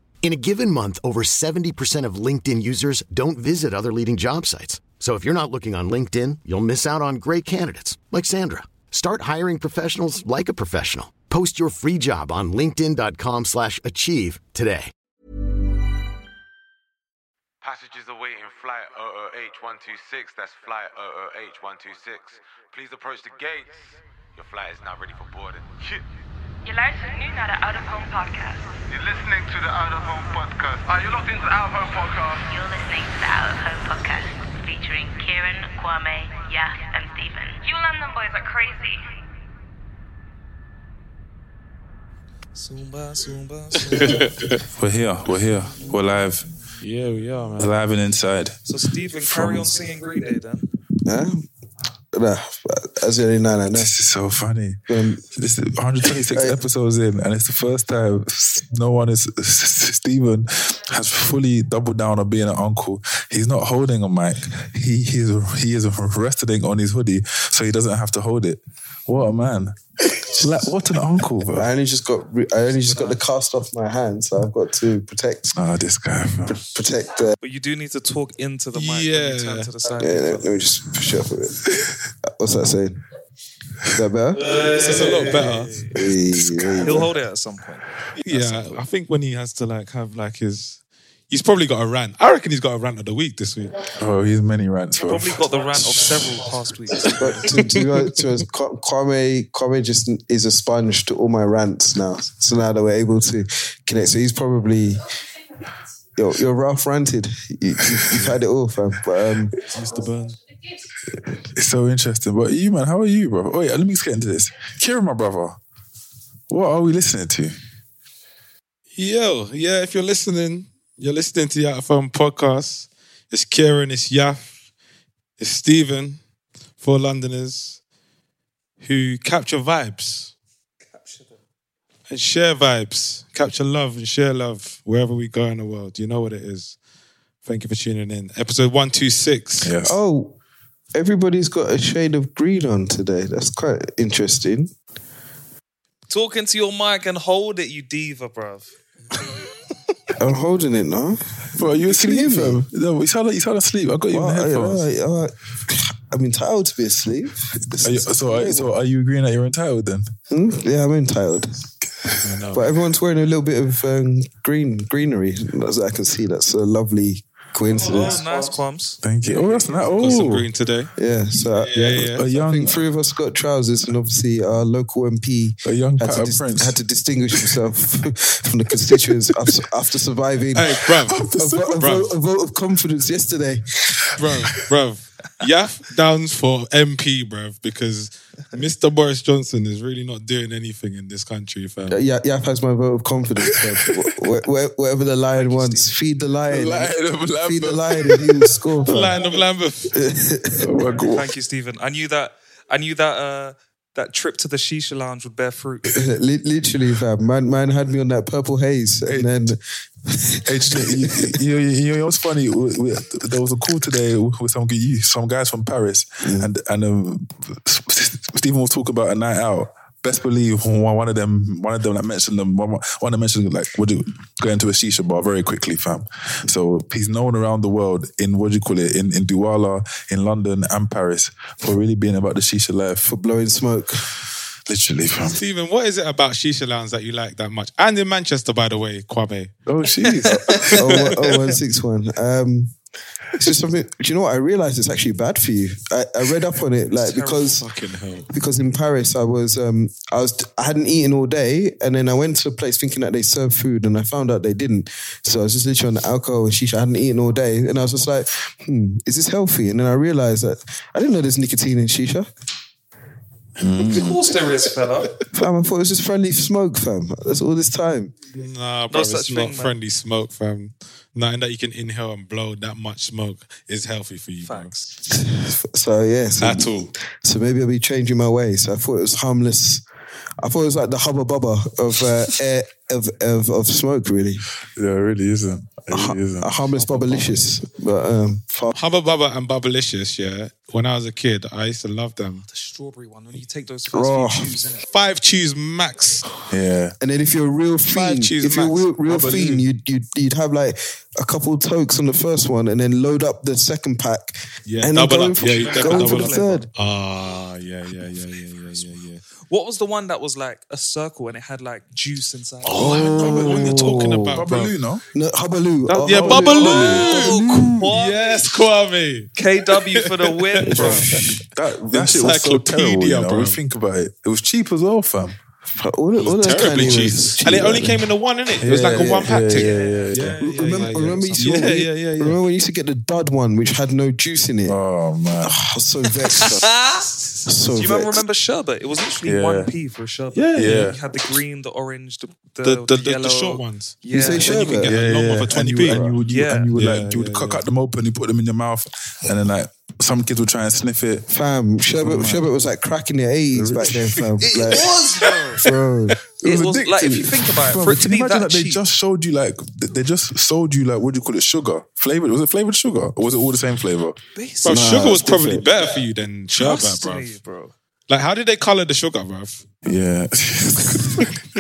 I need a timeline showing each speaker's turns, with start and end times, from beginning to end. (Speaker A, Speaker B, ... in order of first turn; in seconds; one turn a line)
Speaker A: 0.2-14.9
Speaker B: 17.6-26.0
Speaker C: 26.6-28.6
Speaker B: 28.9-32.5
Speaker C: 32.5-38.9
Speaker D: 42.5-44.4
Speaker E: 43.9-44.6
Speaker F: 44.7-46.5
Speaker E: 46.8-47.7
Speaker F: 47.6-48.6
Speaker D: 48.7-50.7
Speaker F: 49.1-49.7
Speaker G: 51.1-51.5
Speaker G: 52.1-53.9
Speaker F: 53.7-71.7
Speaker G: 54.9-55.2
Speaker G: 56.3-56.6
Speaker G: 71.4-75.6
Speaker F: 75.5-76.6
Speaker G: 76.5-77.3
Speaker D: 77.4-80.5
Speaker E: 78.7-79.7
Speaker G: 80.0-81.6
Speaker G: 82.4-83.0
Speaker G: 83.9-84.5
Speaker D: 84.6-86.0
Speaker E: 84.8-85.7
Speaker G: 85.9-87.1
Speaker F: 86.3-87.0
Speaker D: 86.8-88.8
Speaker E: 88.2-93.8
Speaker F: 94.0-96.3
Speaker D: 95.0-97.5
Speaker G: 97.1-105.0
Speaker G: 106.2-109.5
Speaker F: 108.0-108.4
Speaker F: 109.5-110.3
Speaker F: 111.2-115.6
Speaker F: 116.5-117.6
Speaker E: 119.0-124.5
Speaker E: 125.4-126.2
Speaker E: 126.8-127.8
Speaker E: 128.8-130.3
Speaker D: 130.9-131.3
Speaker E: 132.1-136.8
Speaker E: 137.4-139.7
Speaker F: 139.6-139.9
Speaker G: 139.8-140.4
Speaker G: 140.9-144.7
Speaker D: 146.1-148.7
Speaker G: 150.2-152.7
Speaker F: 151.6-154.8
Speaker G: 154.1-158.8
Speaker F: 157.6-160.1
Speaker G: 160.3-161.6
Speaker F: 161.9-162.3
Speaker E: 162.2-162.7
Speaker G: 162.5-168.2
Speaker D: 167.8-169.8
Speaker F: 169.0-170.5
Speaker E: 169.3-170.9
Speaker G: 171.0-180.8
Speaker E: 171.7-172.2
Speaker F: 171.9-172.8
Speaker F: 175.6-176.8
Speaker F: 178.9-179.5
Speaker E: 180.6-181.2
Speaker F: 180.7-182.1
Speaker G: 181.4-184.1
Speaker E: 181.8-182.1
Speaker E: 184.2-192.0
Speaker G: 191.9-196.9
Speaker F: 193.5-193.9
Speaker D: 195.4-195.9
Speaker F: 196.5-198.5
Speaker G: 197.4-199.2
Speaker E: 198.9-200.0
Speaker G: 199.9-200.9
Speaker F: 200.6-201.3
Speaker D: 200.9-205.9
Speaker G: 205.9-211.4
Speaker F: 209.1-209.5
Speaker F: 210.4-233.1
Speaker G: 216.2-216.5
Speaker G: 233.1-234.0
Speaker F: 234.7-235.4
Speaker E: 235.2-239.5
Speaker F: 239.7-240.8
Speaker G: 240.3-242.8
Speaker E: 240.7-241.3
Speaker G: 243.4-247.7
Speaker D: 246.9-247.6
Speaker E: 247.6-248.3
Speaker G: 248.3-262.3
Speaker F: 263.6-264.4
Speaker D: 263.8-265.1
Speaker G: 265.3-268.1
Speaker E: 268.3-274.9
Speaker D: 268.9-269.8
Speaker D: 274.4-274.7
Speaker G: 275.1-279.8
Speaker E: 276.4-276.9
Speaker G: 280.4-284.4
Speaker F: 284.8-287.4
Speaker G: 285.9-288.8
Speaker E: 288.8-292.4
Speaker D: 292.5-294.8
Speaker G: 293.9-294.6
Speaker E: 294.9-296.2
Speaker F: 296.5-297.0
Speaker G: 297.0-306.7
Speaker E: 297.9-298.8
Speaker F: 299.1-299.6
Speaker E: 304.7-309.2
Speaker D: 305.6-306.5
Speaker D: 309.5-313.7
Speaker F: 312.7-315.1
Speaker G: 312.8-314.4
Speaker E: 313.1-314.8
Speaker G: 315.1-317.9
Speaker E: 315.9-317.4
Speaker F: 316.0-317.1
Speaker D: 316.5-318.2
Speaker E: 317.9-319.3
Speaker D: 319.4-321.0
Speaker F: 320.7-325.4
Speaker G: 320.7-321.4
Speaker E: 320.8-321.4
Speaker E: 321.9-323.6
Speaker G: 325.8-328.1
Speaker E: 326.3-332.4
Speaker F: 326.3-327.4
Speaker F: 328.6-330.4
Speaker G: 328.8-329.4
Speaker D: 329.5-331.7
Speaker G: 330.4-334.8
Speaker F: 334.7-335.6
Speaker G: 335.4-336.7
Speaker D: 336.4-344.9
Speaker G: 337.5-338.2
Speaker F: 339.3-339.7
Speaker E: 340.4-340.7
Speaker F: 340.5-341.0
Speaker E: 342.6-346.1
Speaker G: 344.1-345.0
Speaker F: 344.9-351.3
Speaker G: 345.8-346.2
Speaker D: 346.3-346.7
Speaker E: 346.8-347.6
Speaker G: 351.3-354.9
Speaker F: 352.0-352.4
Speaker F: 353.5-354.3
Speaker D: 354.5-355.6
Speaker E: 354.9-355.4
Speaker G: 355.6-356.2
Speaker F: 356.4-364.2
Speaker D: 356.4-358.8
Speaker D: 364.4-365.2
Speaker E: 364.6-367.4
Speaker G: 364.7-365.6
Speaker D: 366.5-367.7
Speaker E: 368.1-369.6
Speaker F: 369.9-371.4